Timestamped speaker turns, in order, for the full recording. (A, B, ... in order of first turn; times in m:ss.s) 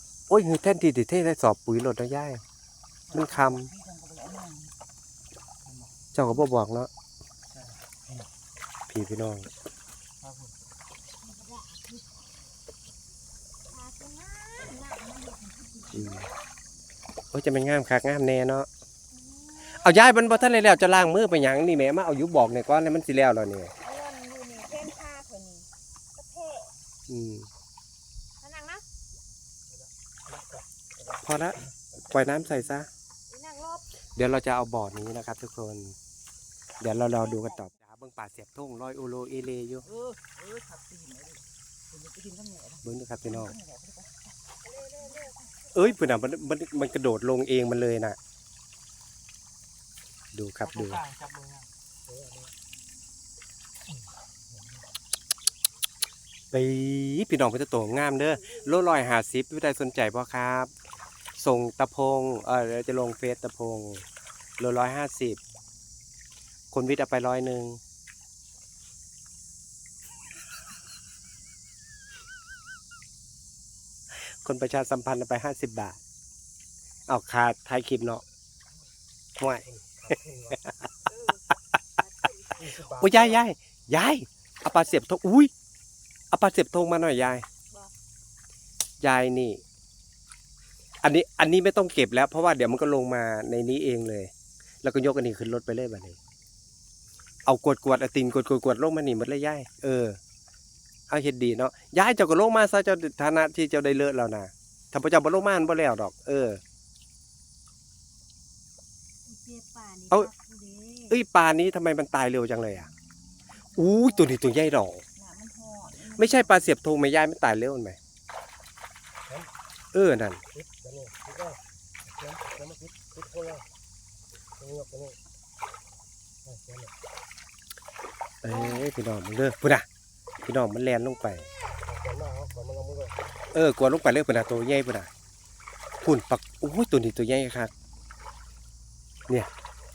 0:00.3-0:02.4 A
0:03.1-0:04.7 B
0:03.1-0:03.7 A
0:06.1-0:06.9 A
0:08.9-0:09.5 A
0:11.3-0:12.1 C
0:13.7-0:16.3 C
0:15.9-0:16.3 A
0:17.3-0:18.7 A
0:19.1-0:20.7 C
0:19.6-0:23.7 A
0:23.8-0:26.7 C
0:27.1-0:27.5 A
0:28.4-0:28.8 C
0:31.2-0:32.9 A
0:33.3-0:34.0 C
0:34.2-0:36.0 A
0:36.8-0:39.8 A
0:37.2-0:37.6 C
0:39.8-0:44.3 B
0:42.8-0:43.6 A
0:44.7-0:46.0 C
0:45.7-0:48.2 A
0:50.3-0:51.1 A
0:51.2-0:51.6 D
0:56.5-1:00.7 A
1:01.4-1:04.0 A
1:04.6-1:05.4 A
1:06.7-1:07.8 A
1:14.1-1:16.0 A
1:17.1-1:18.2 A
1:19.4-1:20.2 A
1:19.9-1:20.3 D
1:21.1-1:21.4 B
1:22.0-1:22.7 B
1:22.7-1:23.1 D
1:22.8-1:25.5 A
1:26.3-1:27.4 A
1:29.0-1:29.6 A
1:31.0-1:34.3 A
1:34.8-1:36.2 A
1:37.5-1:40.2 A
1:41.1-1:46.6 A
1:49.3-1:51.1 C
1:51.1-1:52.9 A
1:53.8-1:54.1 B
1:53.8-1:55.0 A
1:55.2-1:56.8 B
1:56.1-1:58.0 A
1:59.9-2:00.4 A
2:00.8-2:01.1 D
2:02.6-2:03.6 D
2:04.6-2:05.1 D
2:08.4-2:09.9 A
2:10.4-2:11.5 A
2:12.0-2:13.1 D
2:13.5-2:15.1 A
2:16.0-2:17.7 A